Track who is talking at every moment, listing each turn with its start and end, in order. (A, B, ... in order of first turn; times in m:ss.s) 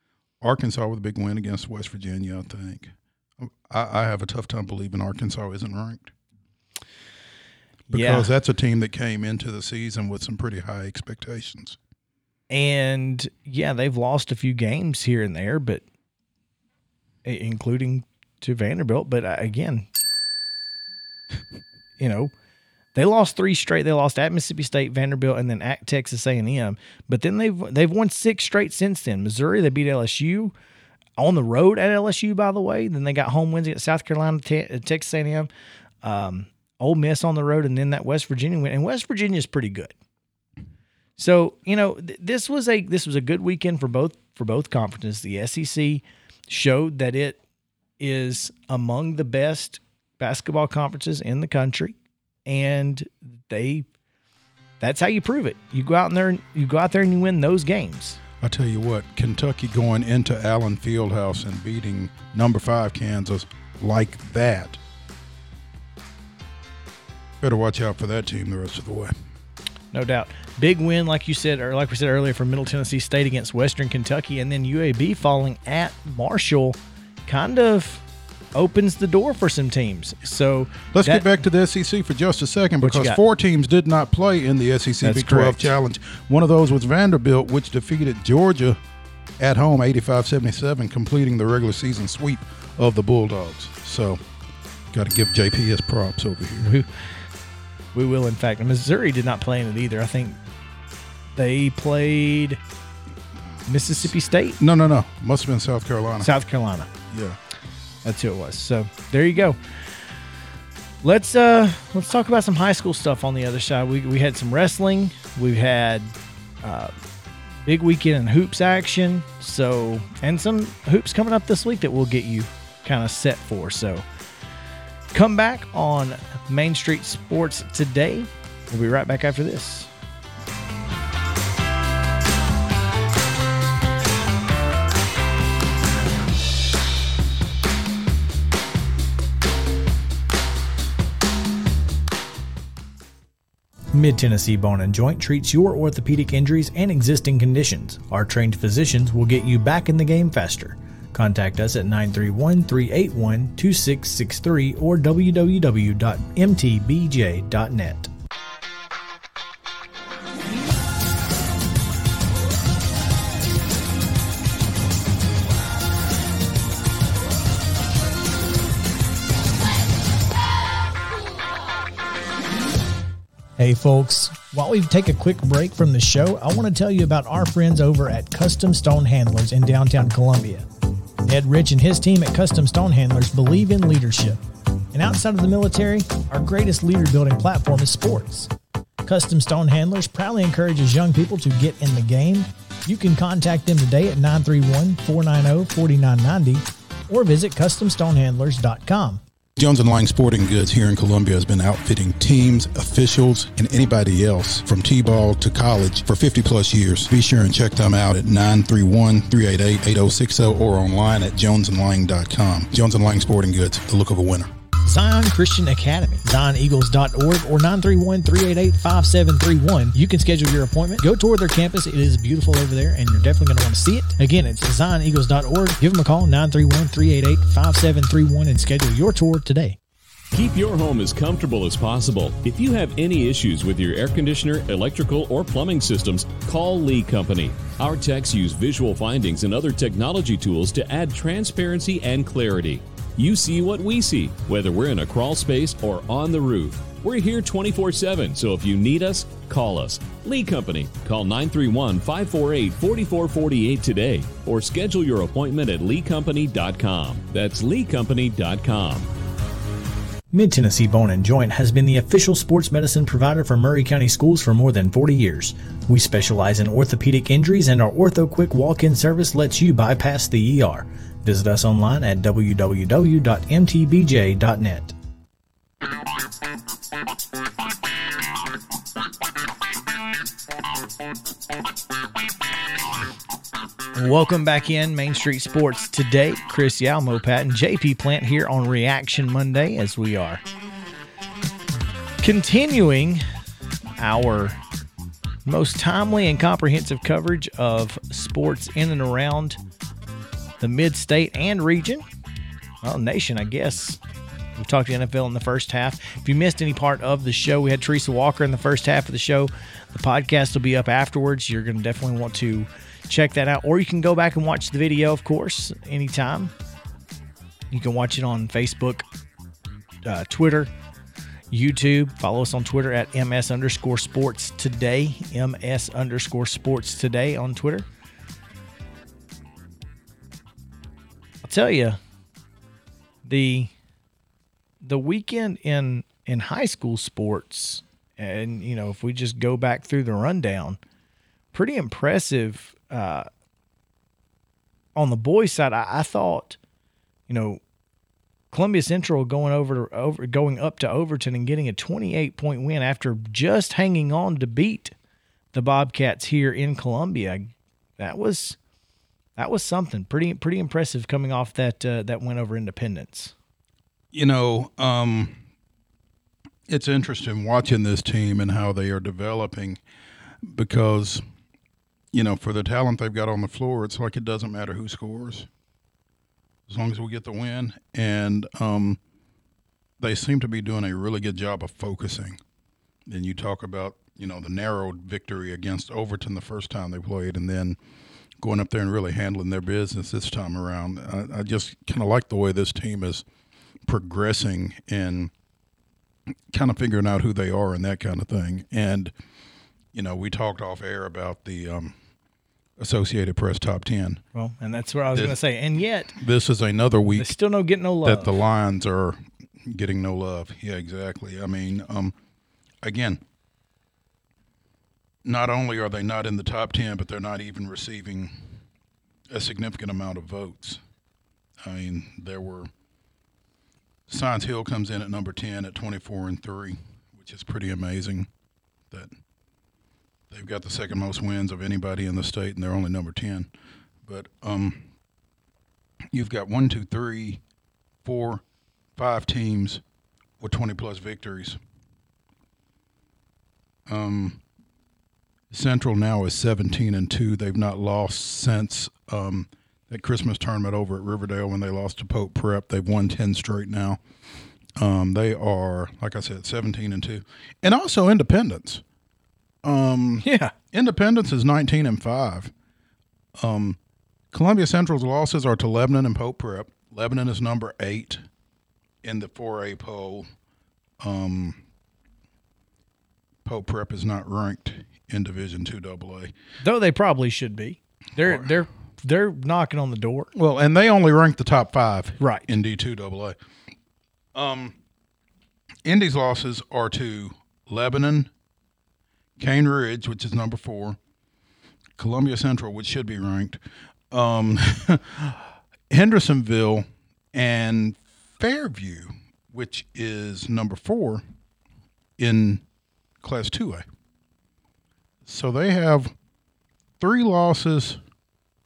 0:00.4-0:06.1 A
0:07.9-0:08.3 B
0:07.9-0:11.8 A
0:12.5-0:15.8 B
0:17.2-0:19.9 B
0:22.0-0:22.3 B
0:22.9-0:30.5 B
0:31.2-0:35.5 B
0:36.0-0:39.9 B
0:41.2-0:47.4 B
0:48.0-0:53.8 B
0:54.8-0:58.2 B
0:58.4-1:04.8 A
1:07.4-1:09.1 A
1:09.9-1:21.3 B
1:20.9-1:28.8 A
1:22.8-1:23.2 B
1:25.0-1:25.7 B
1:29.4-1:34.2 A
1:34.9-1:36.7 A
1:36.6-1:37.1 B
1:37.9-1:40.4 B
1:41.3-1:42.6 B
1:43.6-1:44.6 B
1:44.6-1:46.3 A
1:46.2-1:46.9 B
1:47.1-1:47.4 A
1:48.0-1:49.8 B
1:51.0-1:56.9 B
1:57.6-2:04.0 B
2:05.1-2:09.9 B
2:23.9-2:38.1 B
2:53.6-3:00.6 B
3:01.2-3:04.4 B
3:04.9-3:08.5 B
3:09.0-3:19.2 B
3:19.6-3:34.5 A
3:34.8-3:49.8 B
3:50.3-4:19.1 C
4:20.3-4:34.9 B
4:43.9-4:50.4 B
4:52.2-4:53.2 B
4:54.0-4:54.6 B
4:55.4-4:59.6 B
5:00.6-5:02.0 B
5:02.8-5:04.0 B
5:04.5-5:16.5 B
5:17.7-5:19.0 B
5:20.0-5:20.7 B
5:21.5-5:27.8 B
5:31.4-5:32.0 B
5:33.2-5:33.7 B
5:34.8-5:40.8 B
5:41.5-5:43.3 B
5:44.9-5:46.6 B
5:47.3-5:47.6 B
5:48.5-5:54.9 B
5:55.5-5:58.6 B
5:59.4-6:03.3 B
6:04.1-6:05.4 A
6:06.7-6:09.8 A
6:10.4-6:11.2 A
6:12.1-6:15.5 A
6:16.7-6:19.0 A
6:20.0-6:22.4 A
6:23.1-6:27.8 A
6:28.4-6:33.2 A
6:33.8-6:35.3 A
6:36.5-6:39.1 A
6:39.9-6:41.9 A
6:42.8-6:44.2 A
6:44.3-6:46.1 B
6:46.1-6:47.3 A
6:47.2-6:48.3 B
6:48.0-6:52.1 A
6:52.8-6:53.2 A
6:55.2-6:58.6 A
6:59.3-7:00.8 A
7:01.6-7:02.7 A
7:04.1-7:08.3 A
7:10.3-7:13.5 A
7:14.0-7:14.9 A
7:16.1-7:17.4 A
7:18.0-7:18.4 A
7:19.0-7:19.8 A
7:20.4-7:21.6 A
7:23.9-7:24.4 A
7:25.5-7:34.0 A
7:34.8-7:38.8 A
7:39.6-7:42.5 A
7:40.2-7:40.5 B
7:43.4-7:43.8 A
7:44.3-7:48.2 A
7:49.0-7:50.3 A
7:51.0-7:51.6 A
7:53.4-7:56.3 A
7:56.6-8:00.3 B
8:00.3-8:03.4 A
8:02.2-8:02.5 B
8:04.3-8:04.8 A
8:05.8-8:08.3 A
8:09.4-8:11.0 A
8:12.0-8:13.6 A
8:14.1-8:21.2 A
8:22.2-8:22.6 A
8:23.2-8:23.8 A
8:25.2-8:26.1 A
8:27.0-8:28.0 A